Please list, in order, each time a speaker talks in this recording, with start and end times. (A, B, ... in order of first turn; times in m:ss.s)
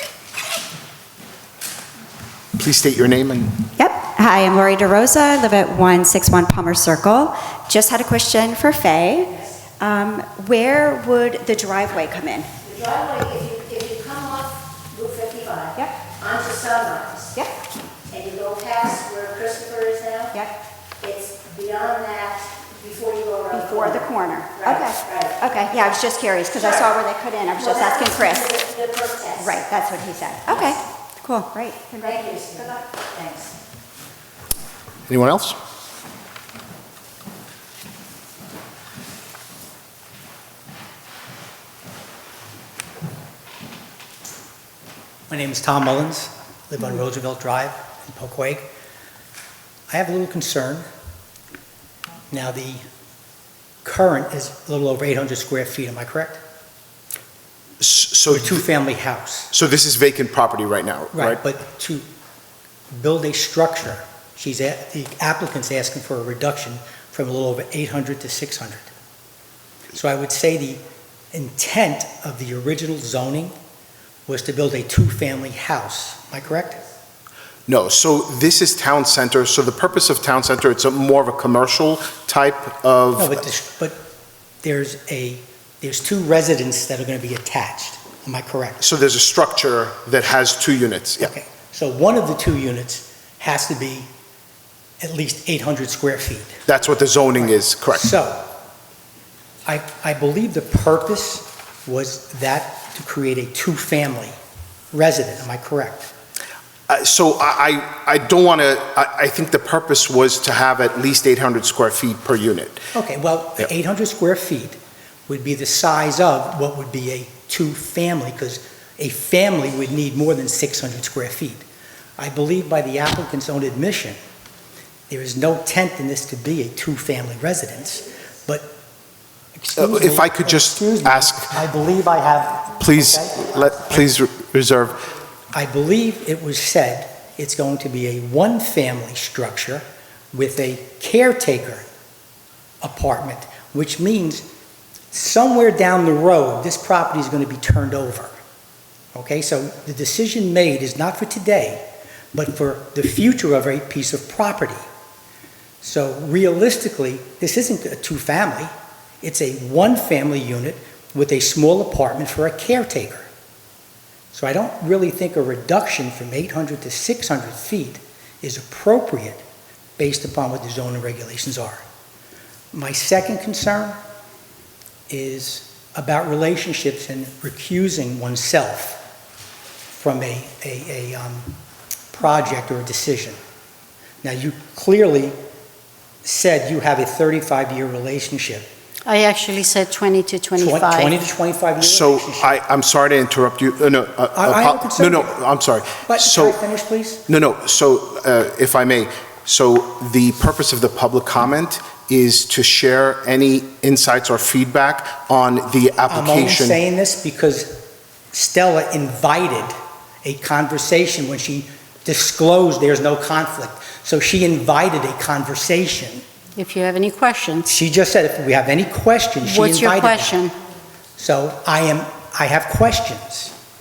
0:02.6-0:03.7 A
0:03.8-0:12.5 B
0:12.7-0:17.3 C
0:18.1-0:20.3 C
0:21.0-0:23.6 C
0:23.5-0:28.7 B
0:28.2-0:29.3 C
0:29.4-0:32.8 B
0:32.2-0:33.4 C
0:35.1-0:35.6 A
0:45.3-0:48.7 D
0:49.9-0:50.8 D
0:52.3-0:52.8 D
0:53.8-0:56.4 D
0:57.8-0:58.6 A
0:58.3-0:59.5 D
0:59.5-1:01.4 A
1:01.1-1:02.0 D
1:02.9-1:08.9 D
1:09.9-1:10.8 D
1:11.3-1:13.6 D
1:14.3-1:16.8 D
1:17.7-1:23.4 A
1:23.2-1:24.0 D
1:24.6-1:28.8 D
1:28.8-1:31.3 A
1:31.2-1:34.1 D
1:35.0-1:36.6 D
1:36.7-1:38.1 A
1:37.4-1:38.5 D
1:39.7-1:44.4 D
1:44.9-1:46.1 D
1:46.9-1:52.9 A
1:52.9-1:54.8 D
1:55.3-2:01.6 D
2:02.2-2:04.2 D
2:05.1-2:08.7 D
2:09.6-2:14.0 D
2:09.8-2:11.6 A
2:12.8-2:15.0 A
2:15.5-2:21.8 D
2:22.8-2:24.5 D
2:25.1-2:28.4 D
2:29.1-2:34.8 D
2:35.8-2:43.3 D
2:44.3-2:49.4 D
2:50.0-2:51.8 D
2:52.7-2:54.0 D
2:55.1-2:59.0 D
2:59.9-3:01.6 D
3:02.1-3:03.4 D
3:04.2-3:05.4 D
3:06.2-3:08.7 D
3:09.1-3:11.2 E
3:10.6-3:12.6 D
3:11.8-3:16.6 A
3:14.4-3:15.4 D
3:16.1-3:17.2 D
3:17.3-3:26.8 A
3:26.1-3:36.2 D
3:36.6-3:37.7 E
3:37.6-3:40.5 D
3:39.4-3:40.5 E
3:41.2-3:43.5 D